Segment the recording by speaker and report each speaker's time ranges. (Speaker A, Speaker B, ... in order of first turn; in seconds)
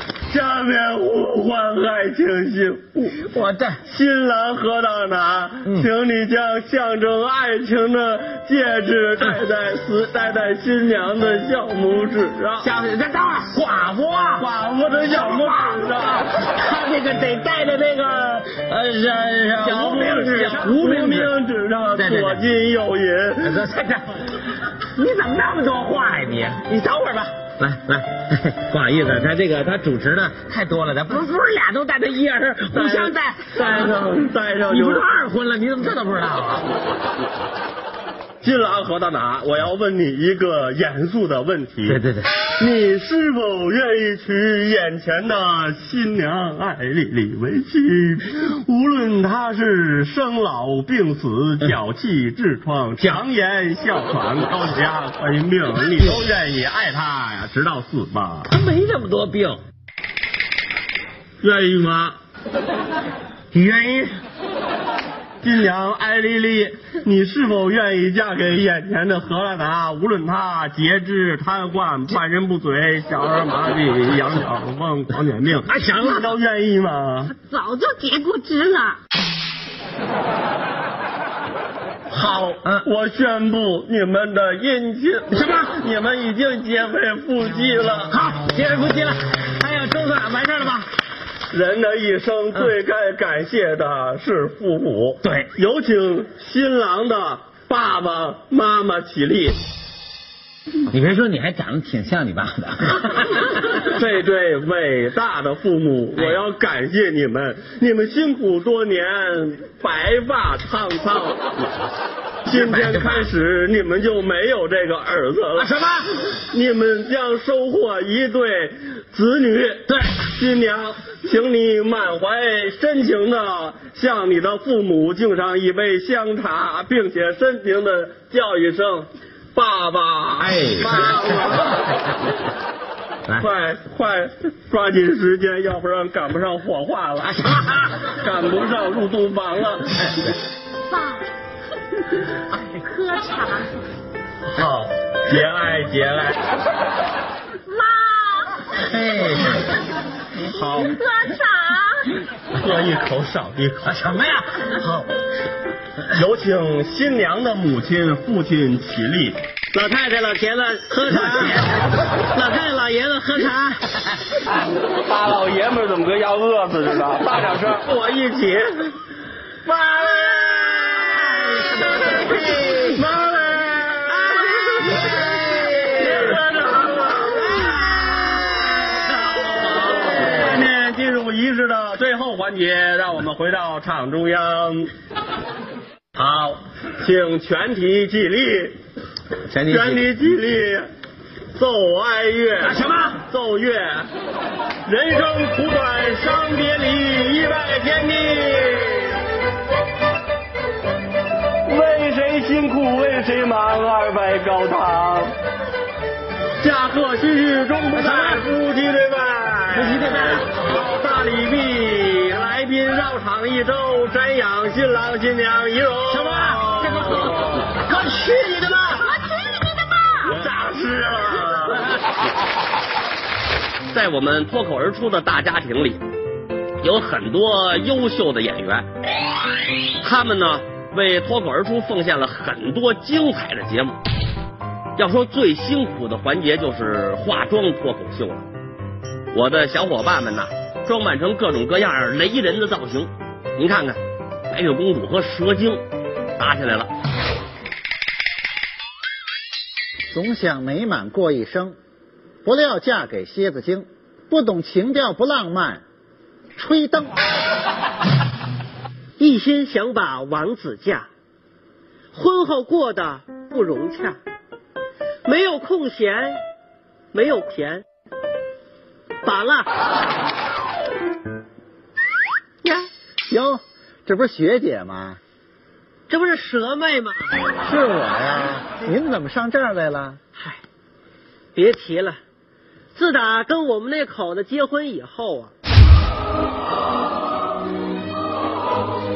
Speaker A: 0.3-3.2, 3.9-12.7, 14.3-16.2, 19.3-23.6, 32.7-35.0, 38.4-42.0, 42.5-58.5, 61.4-62.1, 63.6-64.0, 65.4-77.3, 82.1-88.2, 91.5-99.6, 103.8-111.4, 112.5-115.7, 116.3-131.8, 133.3-140.1, 144.5-146.4, 150.4-150.9, 152.6-154.0, 154.7-155.1, 156.1-159.4, 164.8-168.9, 169.7-177.9, 179.1-184.9, 186.2-188.8, 189.6-190.9, 191.5-194.1, 194.8-199.2, 201.7-205.3, 206.6-217.7, 220.2-221.9, 223.9-226.0, 226.8-228.9, 230.0-234.0, 235.0-238.4, 239.3-244.0, 244.5-245.8, 246.4-246.9
Speaker B: 3.2-3.8, 12.6-14.5, 15.0-21.4, 21.9-22.4, 23.4-33.9, 34.7-36.7, 41.9-42.4, 58.5-59.6, 75.7-76.3, 85.3-85.8, 88.1-90.9, 95.2-95.5, 100.9-103.5, 112.5-113.3, 115.6-116.2, 119.9-120.2, 130.4-131.2, 148.8-149.7, 153.8-154.8, 161.3-161.6, 172.3-172.8, 189.5-190.1, 192.7-193.2, 207.9-208.4, 209.7-210.5, 216.1-217.4
Speaker C: 77.3-79.0, 142.5-143.7, 147.7-148.8, 150.6-152.2
Speaker D: 159.7-161.8, 162.3-164.0, 174.3-175.7, 217.8-219.1, 259.2-261.1, 262.1-264.2, 265.2-266.4, 267.1-267.8, 269.2-269.7, 272.6-272.9, 276.1-277.4, 281.5-282.2, 282.9-285.5
Speaker E: 250.1-251.8, 252.4-255.8, 256.6-257.1, 273.3-275.2, 277.6-280.2